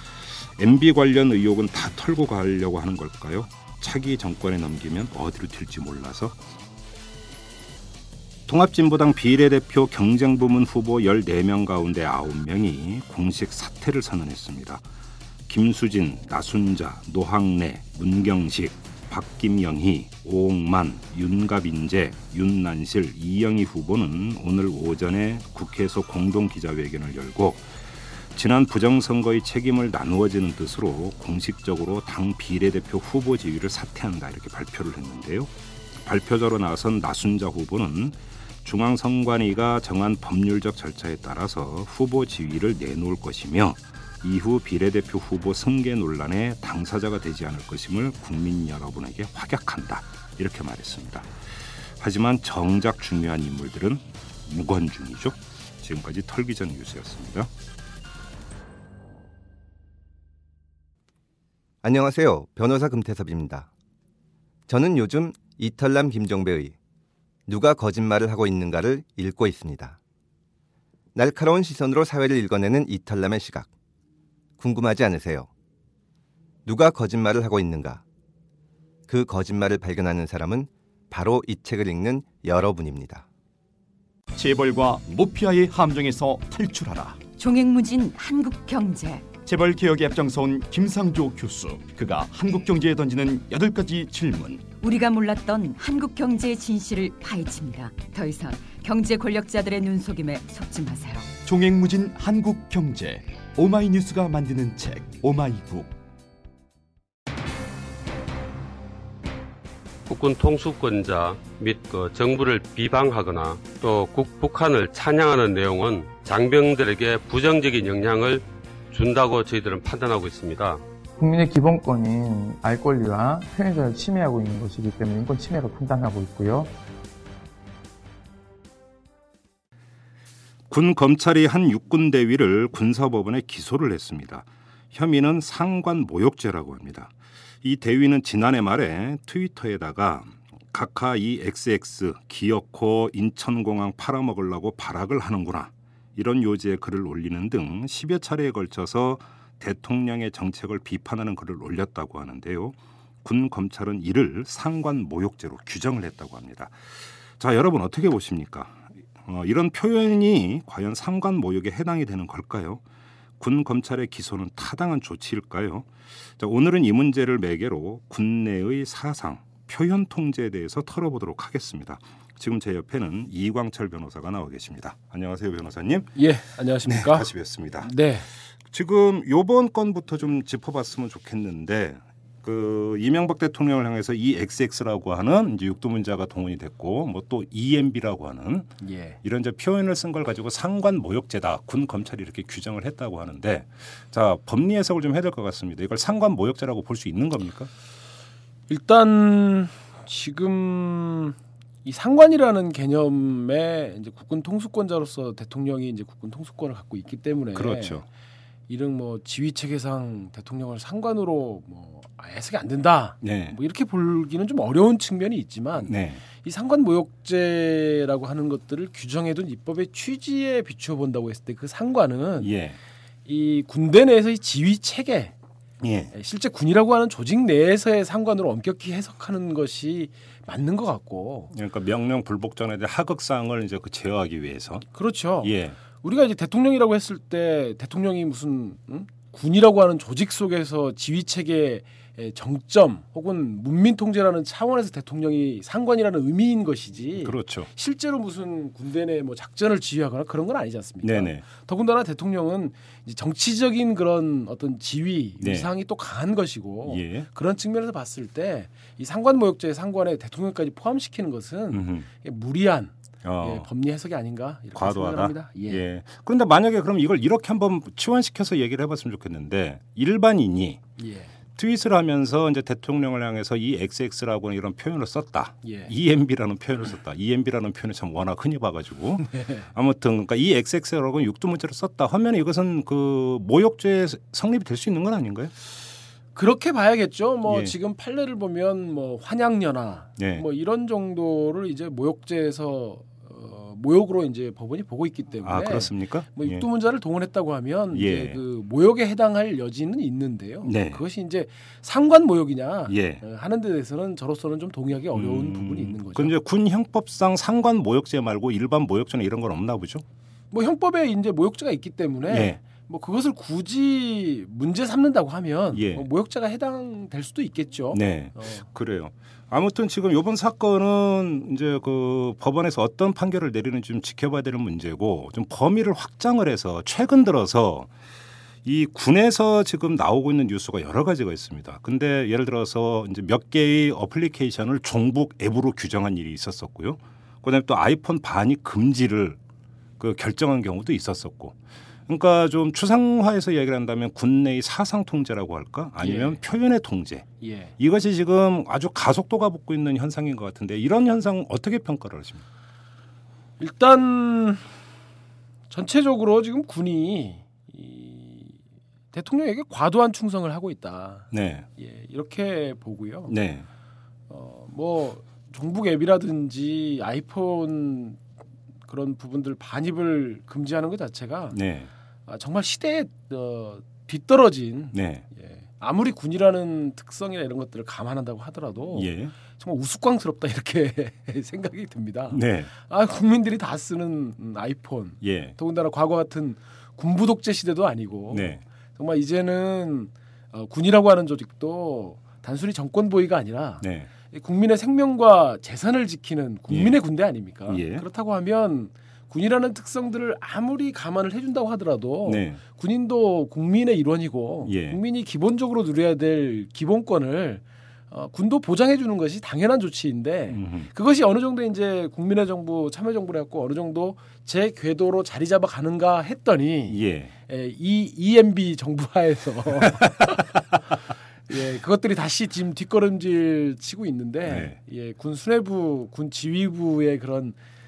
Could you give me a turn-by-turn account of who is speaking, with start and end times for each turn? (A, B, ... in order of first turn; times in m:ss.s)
0:00.6-0:06.4 A
0:08.5-0:14.8 A
0:15.5-0:27.7 A
0:28.3-0:51.3 A
0:52.0-0:57.5 A
1:01.8-1:03.7 B
1:04.7-1:06.7 B
1:07.5-1:10.0 B
1:11.1-1:13.7 B
1:14.6-1:15.5 B
1:16.6-1:18.0 B
1:19.1-1:23.2 B
1:24.3-1:27.2 C
1:27.4-1:29.3 D
1:29.4-1:34.7 C
1:34.8-1:41.3 D
1:41.4-1:46.0 C
1:50.1-2:00.8 E
2:01.2-2:06.7 F
2:10.7-2:36.8 A
2:37.4-2:42.8 A
2:43.4-2:56.2 A
2:56.2-2:57.3 G
2:56.8-2:57.9 A
2:57.8-2:58.2 G
2:58.7-3:17.7 A
3:08.8-3:09.2 G
3:18.7-3:28.0 G
3:27.5-3:28.0 A
3:28.7-3:42.5 G
3:33.2-3:33.6 A
3:35.8-3:36.2 A
3:42.4-3:42.8 A
3:43.2-3:45.3 G
3:45.8-3:46.1 A
3:46.1-3:51.5 G
3:51.5-3:54.8 A
3:54.9-4:25.8 G
3:55.4-3:55.8 A
4:07.2-4:07.7 A
4:11.0-4:11.4 A
4:15.4-4:15.7 A
4:16.8-4:17.3 A
4:21.7-4:22.1 A
4:23.2-4:23.7 A
4:24.7-4:30.8 A
4:31.0-4:31.3 G
4:31.6-4:45.5 A
4:35.6-4:35.9 G
4:39.3-4:39.7 G
4:46.3-5:06.3 G
4:47.5-4:47.7 A
4:50.2-4:50.4 A
4:55.4-4:56.6 A
4:57.9-4:58.4 A
5:00.6-5:01.0 A
5:02.9-5:03.2 A
5:05.1-5:10.0 A
5:10.5-5:18.6 G
5:12.3-5:12.6 A
5:15.7-5:16.1 A
5:17.9-5:27.9 A
5:28.6-5:39.4 A
5:40.0-5:41.6 A
5:42.1-5:47.3 A
5:46.0-5:46.4 G
5:47.4-5:47.7 G
5:47.8-5:52.4 A
5:53.6-5:54.6 G
5:55.7-5:58.6 G
5:59.1-6:03.4 G
6:01.3-6:01.7 A
6:03.3-6:03.6 A
6:04.3-6:08.2 G
6:08.9-6:11.6 G
6:11.5-6:11.9 A
6:12.3-7:00.8 G
6:14.9-6:15.2 A
6:18.9-6:19.3 A
6:22.3-6:22.7 A
6:25.2-6:25.5 A
6:28.3-6:28.6 A
6:33.8-6:34.1 A
6:36.7-6:37.0 A
6:37.7-6:38.0 A
6:42.2-6:42.6 A
6:44.6-6:45.0 A
6:50.5-6:50.9 A
6:56.9-6:57.3 A
7:00.0-7:00.2 A
7:01.5-7:07.6 G
7:04.4-7:04.8 A